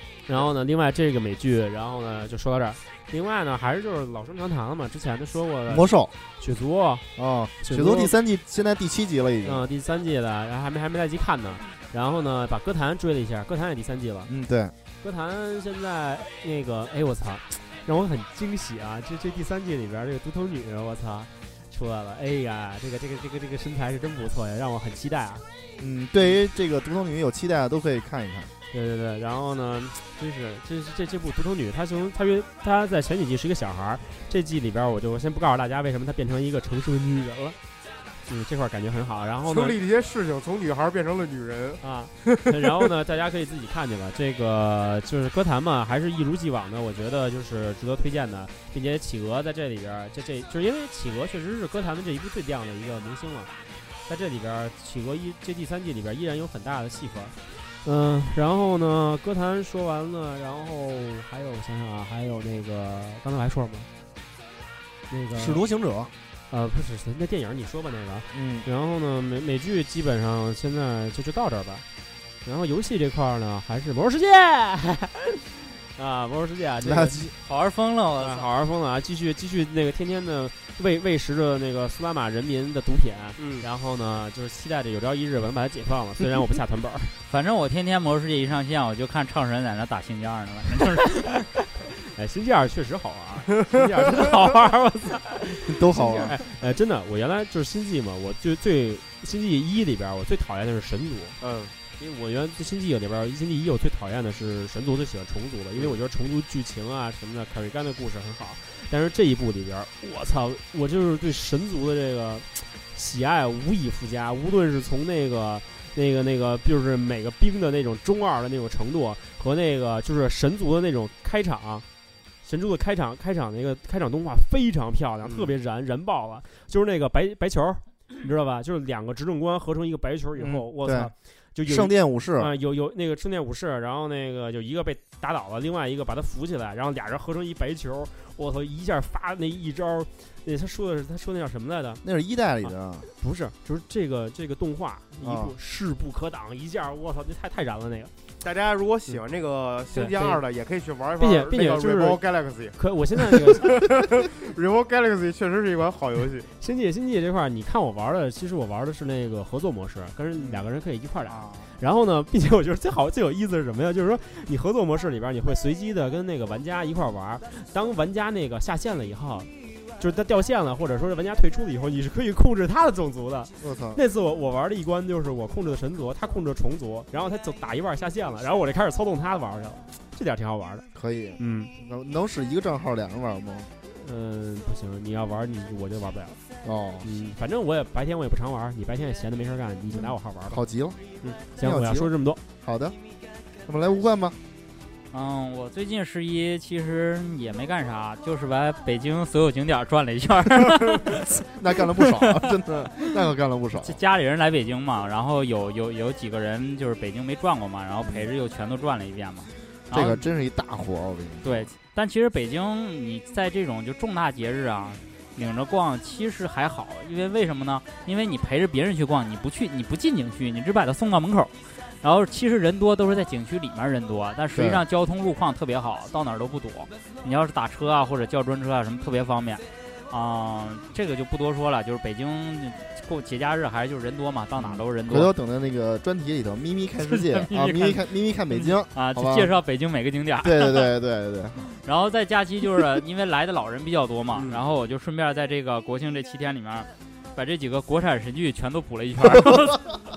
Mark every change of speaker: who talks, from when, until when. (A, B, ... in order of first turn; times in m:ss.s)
0:00.3-0:07.1 A
0:05.7-0:06.1 B
0:07.2-0:09.7 B
0:07.6-0:08.1 A
0:09.4-0:14.3 A
0:14.3-0:14.7 B
0:15.0-0:25.4 A
0:25.8-0:28.5 B
0:28.7-0:37.6 A
0:38.2-0:39.8 A
0:39.5-0:42.9 C
0:41.8-0:53.5 A
0:54.1-1:03.9 A
1:05.1-1:05.6 A
1:05.3-1:06.1 B
1:06.5-1:11.8 A
1:08.3-1:08.7 B
1:12.4-1:17.3 A
1:16.8-1:17.3 B
1:17.4-1:18.5 D
1:18.2-1:27.1 A
1:23.4-1:23.7 C
1:27.3-1:31.5 D
1:31.8-1:41.4 A
1:33.6-1:34.2 C
1:35.7-1:36.4 B
1:35.9-1:36.4 C
1:41.4-1:41.8 C
1:42.0-2:01.8 A
2:02.4-2:22.0 A
2:05.2-2:05.5 C
2:10.4-2:11.1 B
2:11.6-2:12.5 B
2:22.0-2:23.1 B
2:22.6-2:28.1 A
2:25.2-2:25.6 B
2:28.4-2:36.5 C
2:29.9-2:30.4 A
2:31.2-2:32.2 A
2:32.8-2:33.8 A
2:36.6-3:00.8 A
2:41.3-2:41.7 D
2:53.6-2:54.0 B
3:01.0-3:03.7 B
3:01.4-3:01.7 A
3:03.9-3:06.4 A
3:06.6-3:07.1 B
3:07.0-3:10.6 A
3:10.5-3:11.0 B
3:11.2-3:12.4 A
3:11.6-3:12.1 B
3:12.6-3:13.0 B
3:13.7-3:14.4 B
3:15.1-3:21.4 D
3:21.1-3:24.0 B
3:21.9-3:22.6 D
3:23.8-3:30.2 D
3:28.0-3:28.3 B
3:29.9-3:31.7 B
3:31.4-3:55.3 D
3:44.5-3:44.8 B
3:54.6-3:59.5 B
3:57.0-4:00.9 D
4:00.4-4:01.7 B
4:01.8-4:10.0 D
4:04.3-4:04.6 C